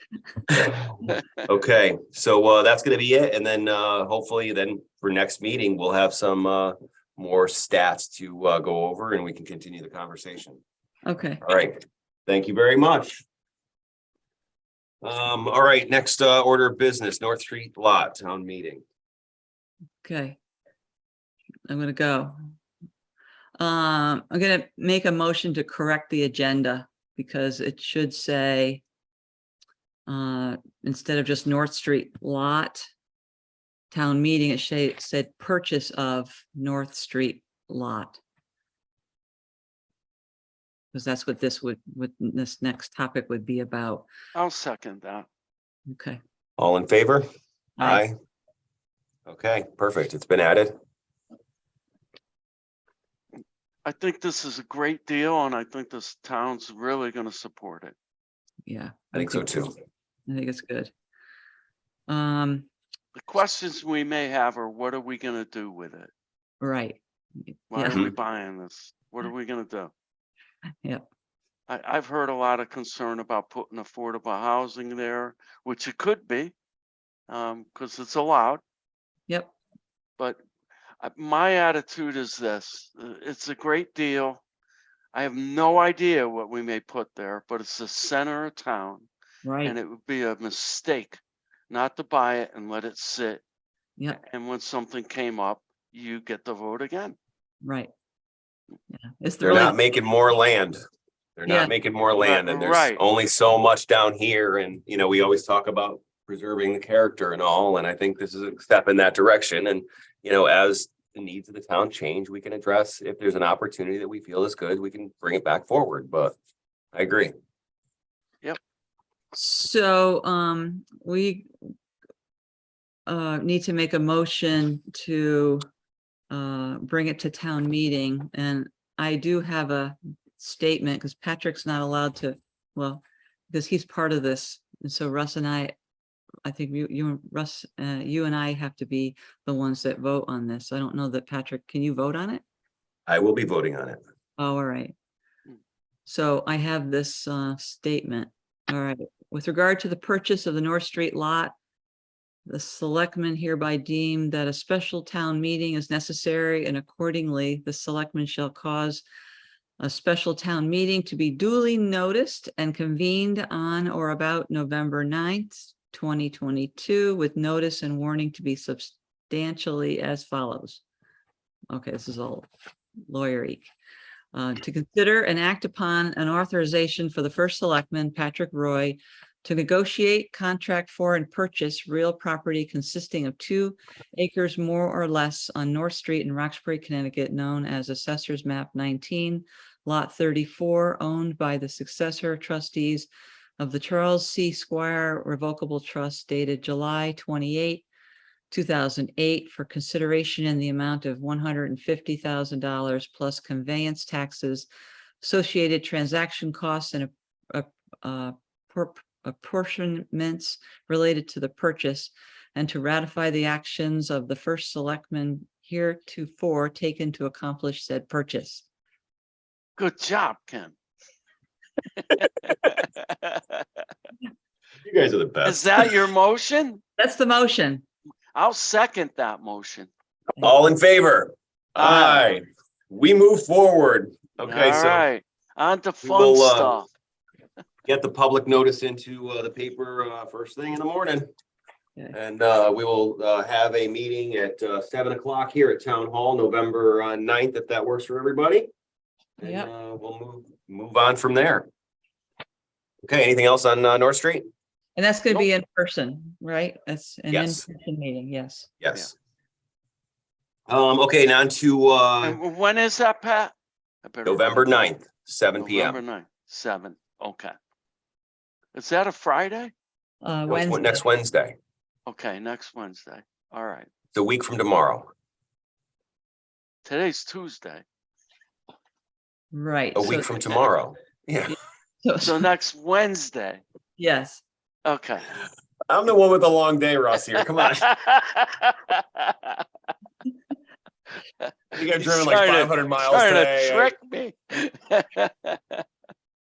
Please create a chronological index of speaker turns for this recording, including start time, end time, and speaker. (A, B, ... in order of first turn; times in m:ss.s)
0:00.3-0:01.1 A
0:00.6-0:10.6 B
0:11.0-0:11.4 A
0:11.4-0:13.2 B
0:15.0-0:18.8 B
0:20.0-0:20.4 A
0:21.7-0:22.3 A
0:23.6-0:28.8 A
0:30.1-0:32.8 A
0:33.9-0:38.2 A
0:40.9-0:44.0 A
0:44.3-0:45.2 C
0:45.9-0:46.2 A
0:46.6-0:47.2 B
0:47.8-0:48.0 A
0:47.8-0:48.1 B
0:49.3-0:50.8 B
0:53.8-0:57.9 C
0:58.6-0:59.5 A
0:59.1-0:59.7 B
1:00.3-1:00.9 A
1:02.1-1:02.7 A
1:03.1-1:06.1 C
1:06.6-1:08.1 A
1:07.7-1:09.9 C
1:07.8-1:08.1 B
1:11.7-1:16.5 C
1:17.3-1:18.6 C
1:19.3-1:19.5 A
1:21.0-1:24.4 C
1:25.1-1:29.1 C
1:29.4-1:29.7 A
1:29.6-1:31.2 C
1:31.7-1:33.4 C
1:34.1-1:37.2 C
1:37.6-1:37.9 A
1:38.9-1:39.8 A
1:39.4-1:40.8 B
1:41.4-1:56.3 B
1:41.4-1:41.7 A
1:42.2-1:43.0 C
1:56.9-1:57.3 B
1:59.3-2:01.5 A
2:03.1-2:05.6 A
2:06.3-2:15.7 A
2:16.4-2:22.4 A
2:23.1-2:24.0 B
2:24.4-2:24.9 A
2:26.0-2:31.5 A
2:32.5-2:39.0 A
2:39.8-2:50.8 A
2:51.7-2:52.5 A
2:53.1-2:53.7 A
2:54.3-3:17.8 A
3:18.5-3:24.7 A
3:25.2-3:38.6 A
3:39.8-3:40.7 C
3:42.0-3:43.8 C
3:44.8-3:45.9 B
3:45.4-3:46.8 C
3:47.0-3:47.8 A
3:48.3-3:49.9 C
3:50.4-3:55.0 B
3:51.8-3:52.3 C
3:54.4-3:56.9 C
3:56.0-3:56.7 B
3:57.8-4:01.3 B
4:02.1-4:08.7 B
4:09.4-4:11.7 B
4:09.4-4:09.7 A
4:13.0-4:14.5 B
4:15.0-4:18.7 A
4:17.3-4:17.6 B
4:18.8-4:19.1 B
4:20.7-4:22.4 B
4:22.2-4:23.5 C
4:24.0-4:24.8 C
4:24.2-4:26.0 B
4:25.6-4:27.5 C
4:28.7-4:29.7 C
4:30.2-4:31.0 A
4:30.5-4:31.5 B
4:32.1-4:33.9 C
4:34.1-4:35.1 B
4:36.8-4:37.8 C
4:39.5-4:40.3 A
4:39.9-4:41.6 B
4:42.0-4:42.4 A
4:42.2-4:43.6 C
4:44.0-4:44.4 A
4:44.8-4:45.3 C
4:45.9-4:47.9 B
4:47.6-4:49.6 C
4:51.7-4:53.9 B
4:52.0-4:55.8 C